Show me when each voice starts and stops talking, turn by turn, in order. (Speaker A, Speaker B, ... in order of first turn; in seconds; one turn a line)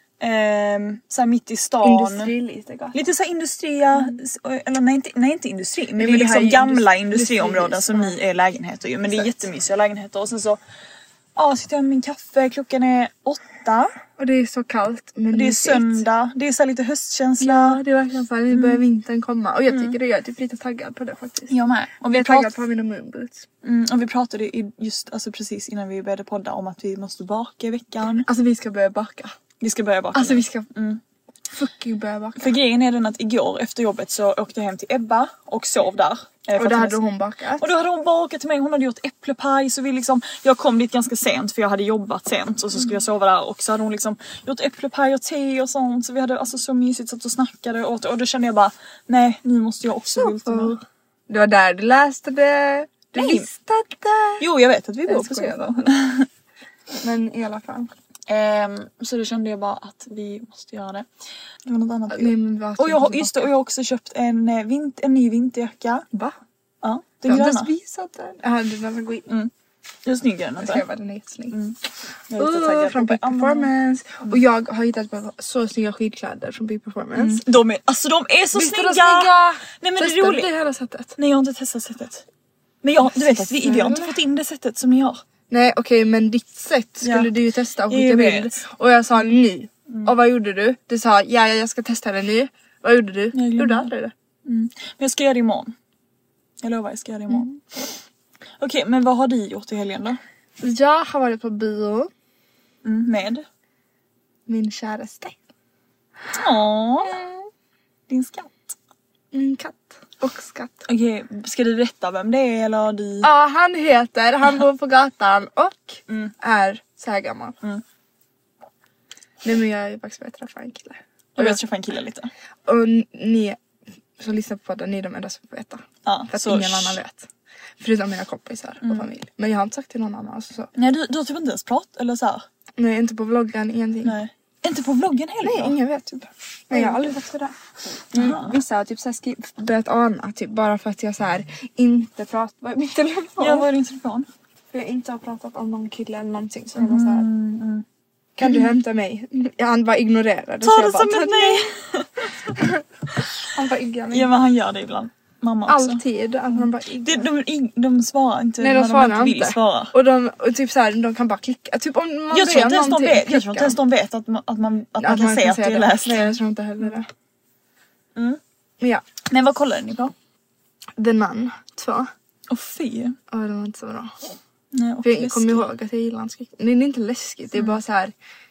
Speaker A: 0.2-2.3
Speaker B: 1.8-3.0
Speaker A: 2.9-10.6
Speaker B: 6.0-8.2
Speaker A: 11.4-13.9
Speaker B: 14.2-16.1
Speaker A: 15.3-17.8
Speaker B: 17.4-21.5
Speaker A: 18.5-18.9
Speaker A: 19.7-20.0
Speaker A: 21.5-22.5
Speaker B: 22.1-23.4
Speaker A: 23.6-28.3
Speaker B: 28.2-29.3
Speaker A: 29.6-31.0
Speaker B: 30.1-30.7
Speaker B: 31.5-32.6
Speaker A: 32.4-37.0
Speaker B: 36.6-37.7
Speaker A: 37.6-50.7
Speaker B: 50.2-54.5
Speaker A: 53.2-53.5
Speaker A: 54.4-56.3
Speaker B: 55.1-56.0
Speaker B: 57.0-57.9
Speaker A: 58.3-61.1
Speaker A: 61.7-66.0
Speaker B: 62.1-63.5
Speaker A: 66.8-67.7
Speaker B: 67.3-69.3
Speaker A: 70.1-70.8
Speaker B: 70.6-71.6
Speaker A: 71.5-71.8
Speaker A: 72.3-73.7
Speaker B: 72.4-77.4
Speaker A: 77.2-80.5
Speaker B: 78.5-81.2
Speaker A: 81.2-82.2
Speaker A: 82.8-85.2
Speaker B: 83.1-84.1
Speaker B: 85.5-94.1
Speaker A: 87.0-87.3
Speaker A: 87.9-88.5
Speaker A: 93.3-93.9
Speaker A: 94.5-95.7
Speaker A: 96.6-97.9
Speaker A: 98.6-100.2
Speaker B: 100.6-102.1
Speaker A: 102.8-103.5
Speaker B: 104.5-105.4
Speaker A: 106.3-107.2
Speaker B: 107.1-107.4
Speaker A: 108.1-108.5
Speaker B: 109.3-110.9
Speaker A: 110.9-113.3
Speaker B: 113.2-117.6
Speaker B: 119.4-121.6
Speaker A: 121.4-122.3
Speaker B: 122.7-123.6
Speaker B: 124.2-127.3
Speaker A: 126.1-127.0
Speaker B: 127.8-130.7
Speaker A: 128.8-129.1
Speaker A: 130.8-132.4
Speaker B: 132.8-134.2
Speaker A: 134.0-135.8
Speaker B: 135.4-137.5
Speaker A: 136.7-137.1
Speaker A: 138.1-138.5
Speaker B: 138.1-143.7
Speaker A: 143.4-144.3
Speaker B: 144.7-147.3
Speaker A: 146.8-147.8
Speaker B: 148.4-151.6
Speaker A: 148.4-148.7
Speaker A: 150.6-152.5
Speaker B: 152.5-152.8
Speaker B: 153.5-154.3
Speaker A: 154.1-156.0
Speaker B: 155.7-157.3
Speaker A: 156.5-159.9
Speaker B: 158.6-163.8
Speaker A: 162.3-167.0
Speaker B: 165.0-167.1
Speaker A: 169.3-170.1
Speaker B: 171.0-172.1
Speaker A: 172.5-173.2
Speaker B: 173.3-174.1
Speaker A: 174.7-175.7
Speaker B: 175.0-178.1
Speaker A: 177.6-177.8